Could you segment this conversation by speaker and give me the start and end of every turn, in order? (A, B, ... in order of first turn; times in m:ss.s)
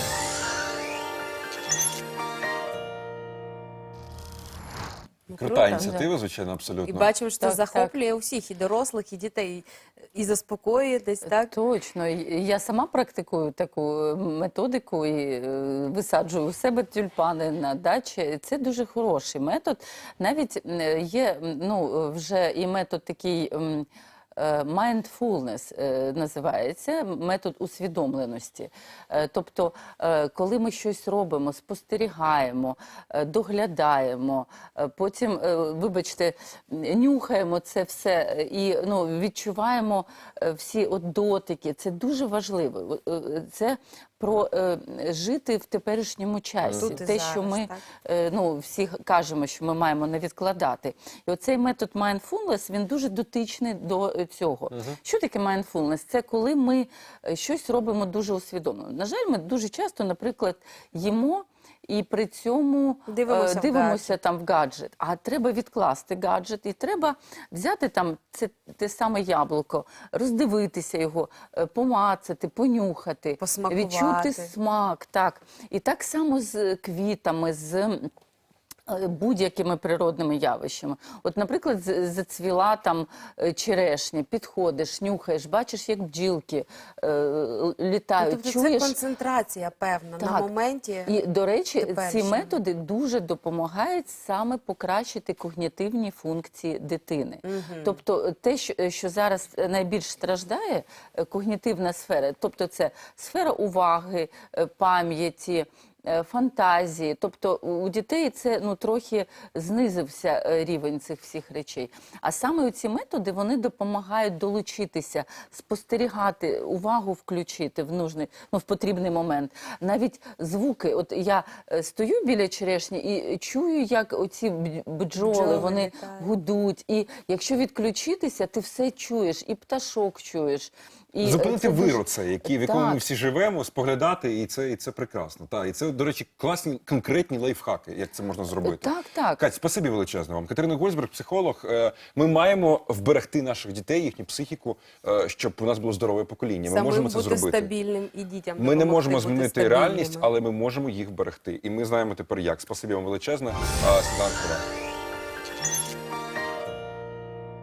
0:05.3-0:05.9 A
0:05.4-0:07.1 B
0:05.4-0:06.1 C
0:06.8-0:11.5 A
0:07.4-0:07.9 C
0:11.2-1:18.0 C
0:46.6-0:46.9 B
0:46.8-0:47.8 A
0:54.7-0:55.0 B
1:03.1-1:04.2 A
1:13.4-1:14.5 A
1:18.9-1:29.0 C
1:28.2-1:31.2 A
1:30.2-1:30.5 C
1:31.0-2:13.0 C
1:31.8-1:32.6 A
1:37.4-1:38.0 A
2:05.2-2:06.3 A
2:11.2-2:27.7 B
2:18.6-2:19.4 C
2:26.7-2:30.3 A
2:28.6-2:34.6 B